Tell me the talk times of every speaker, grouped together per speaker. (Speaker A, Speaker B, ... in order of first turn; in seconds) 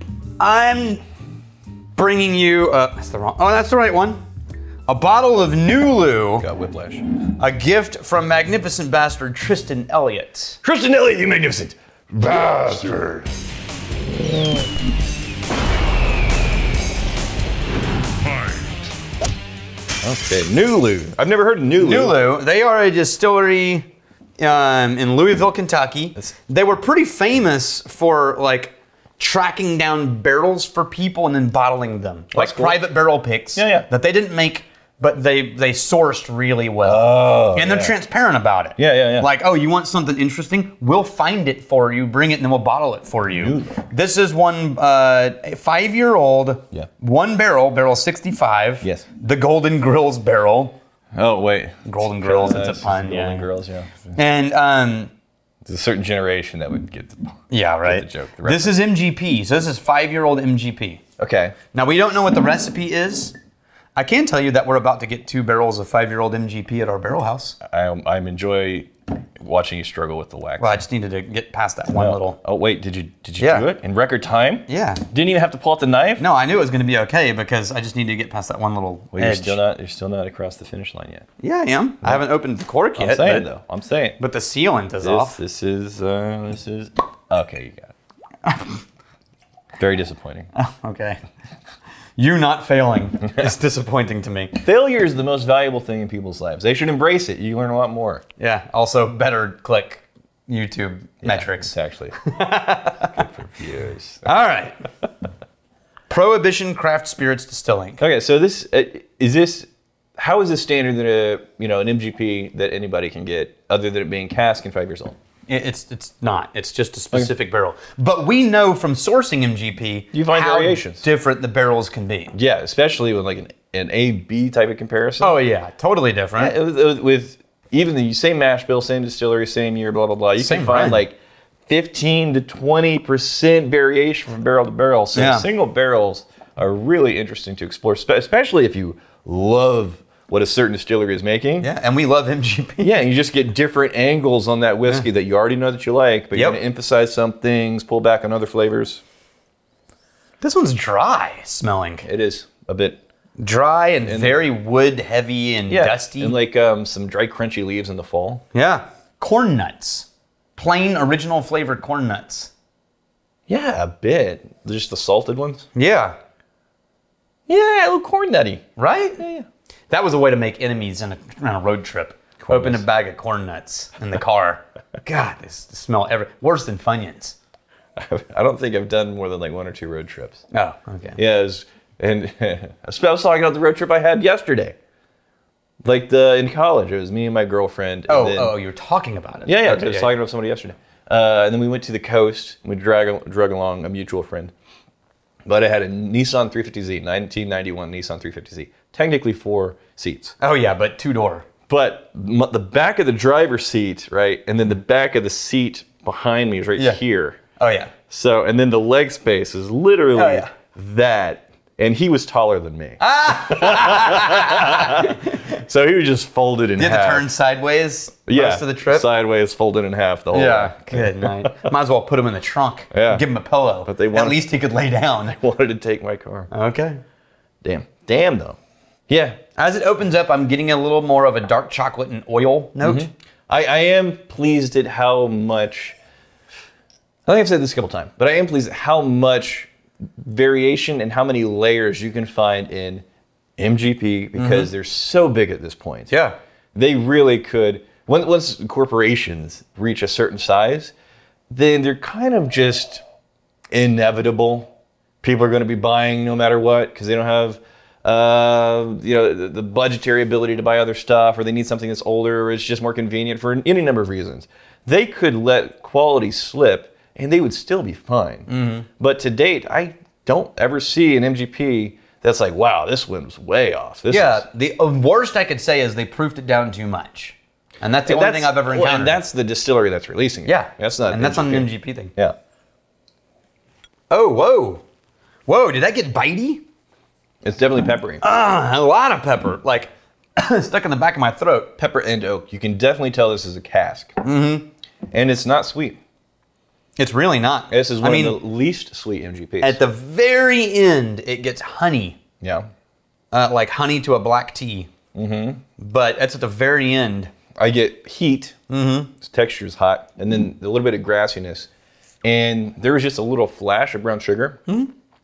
Speaker A: 0.4-1.0, 1.9-4.2, 4.9-6.4, 7.3-10.6, 21.8-23.9, 24.4-50.8, 51.8-53.5, 54.1-55.1, 57.5-61.0, 61.7-63.3, 64.0-67.6, 70.6-72.4, 73.4-73.7, 74.7-75.0, 76.2-79.6, 81.4-83.5, 84.2-85.4, 88.4-88.8, 90.5-91.2, 92.2-94.6, 98.4-103.2, 104.2-104.8, 106.1-108.0, 115.5-122.3, 125.2-126.5, 130.4-131.0, 135.1-135.5, 141.6-143.0, 146.3-146.6, 150.4-152.0, 153.4-156.3, 158.5-162.5, 165.7-166.2, 168.8-169.2, 169.9-177.4, 180.5-181.2, 188.1-190.1, 200.4-201.5, 207.6-207.9, 210.1-210.5, 213.0-215.6, 216.8-219.1, 220.3-225.4, 226.5-227.0, 229.6-233.1, 244.3-244.7, 246.1-246.3, 268.5-268.9, 274.1-279.2, 280.4-282.1, 284.1-284.8, 285.5-286.6, 288.2-291.7, 294.2-294.7, 297.0-298.4, 299.6-302.2, 303.3-304.9, 305.8-307.3, 308.7-309.1
Speaker B: 6.4-7.0, 10.6-13.3, 14.2-14.6, 20.0-22.2, 32.3-32.8, 33.5-33.9, 36.8-37.9, 38.8-39.3, 43.3-43.8, 51.1-54.1, 55.6-58.8, 61.2-61.5, 67.6-70.8, 71.9-76.2, 79.1-81.2, 83.0-84.2, 85.0-87.9, 89.8-90.5, 94.6-98.2, 101.2-102.2, 103.1-104.3, 108.0-115.2, 120.1-121.0, 122.3-125.4, 126.4-131.1, 131.7-141.7, 142.8-149.0, 152.0-153.0, 154.0-154.3, 155.7-158.4, 163.5-165.7, 167.5-168.6, 169.2-169.4, 172.4-172.8, 178.0-180.4, 181.2-184.8, 185.8-188.5, 189.4-194.5, 195.4-200.4, 201.7-207.4, 208.1-217.2, 218.3-221.7, 222.9-223.2, 223.8-224.4, 225.3-226.5, 227.6-228.6, 229.1-229.4, 232.8-235.9, 237.2-243.0, 243.6-246.1, 246.7-250.9, 251.5-253.0, 253.7-254.7, 255.2-268.5, 269.0-274.4, 278.1-282.4, 287.4-288.2, 291.8-294.2, 295.1-296.0, 297.7-299.8, 302.4-302.7, 305.1-305.6, 307.6-308.6, 309.2-311.7, 312.2-314.6